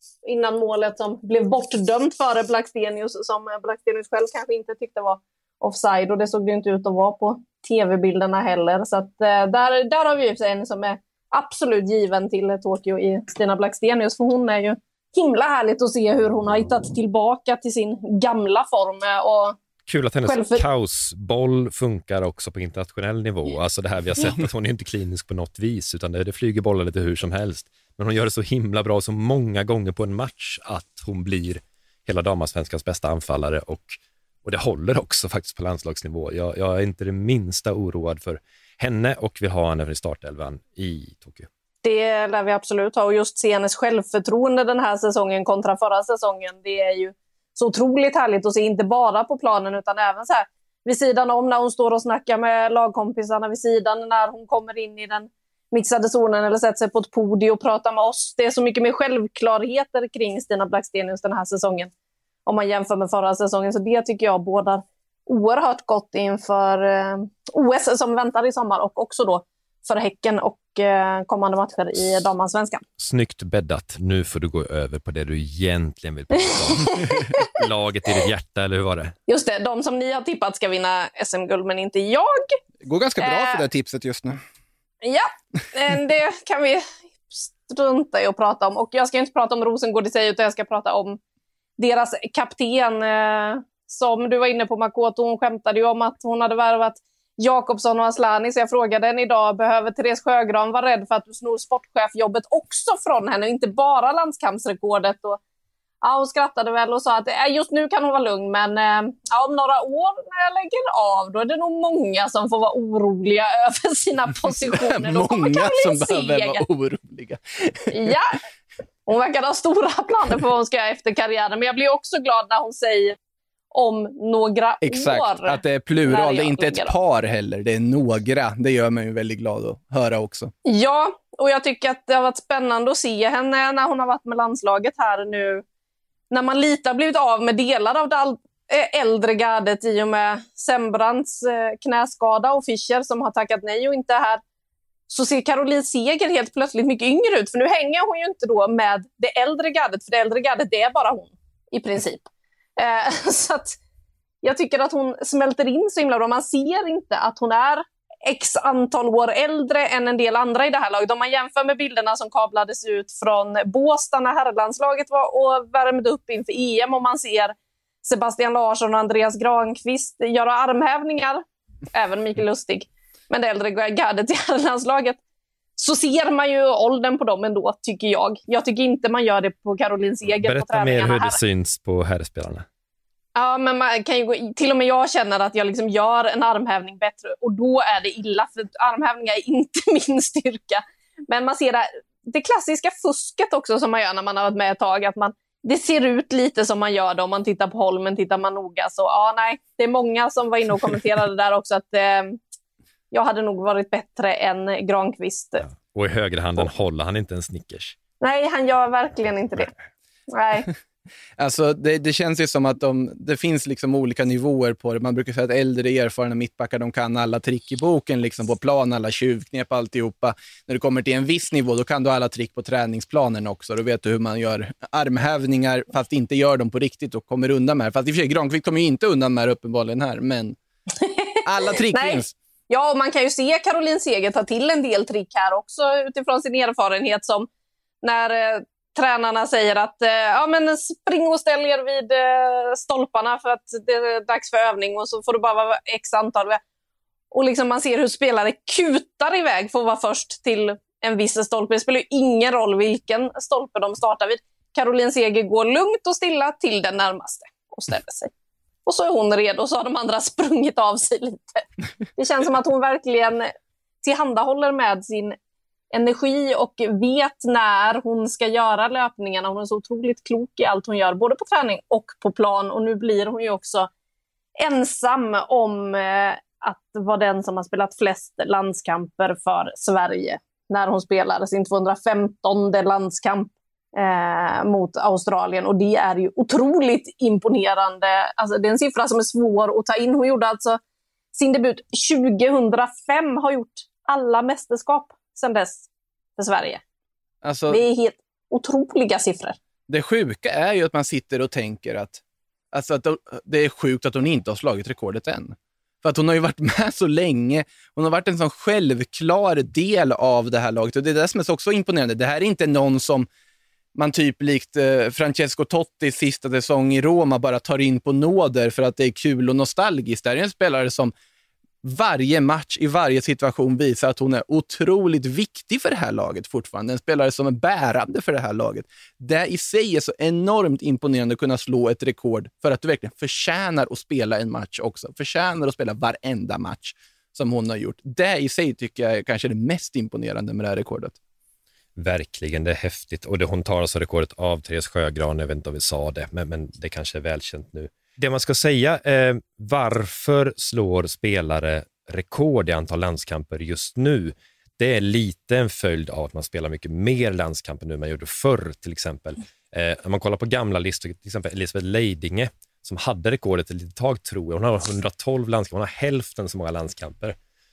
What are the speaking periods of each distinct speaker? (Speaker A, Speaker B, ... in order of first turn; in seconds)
Speaker A: 0.2-19.6, 20.2-20.6, 41.8-61.9, 62.5-72.8, 76.5-77.4, 79.3-82.5, 83.2-83.6, 85.0-91.2, 91.8-105.4, 106.0-116.6, 117.9-118.4, 119.0-123.2, 123.7-126.9, 130.6-135.6, 136.3-144.4, 145.1-153.8, 154.4-175.2, 175.8-181.4, 183.3-202.4, 203.1-205.7, 208.2-209.7, 210.3-210.7, 231.0-237.5, 238.0-246.6, 247.3-258.3, 258.9-261.6, 262.1-265.4, 265.9-273.9, 274.6-290.8, 291.3-296.8, 297.7-299.6
Speaker B: 19.9-41.5, 73.0-79.1, 180.4-182.7, 205.7-208.0, 341.9-367.3
Speaker C: 82.8-84.4, 114.7-118.1, 124.8-130.5, 211.4-230.6, 231.4-232.3, 297.4-297.8, 299.9-302.2, 302.7-313.3, 313.9-321.1, 321.8-341.1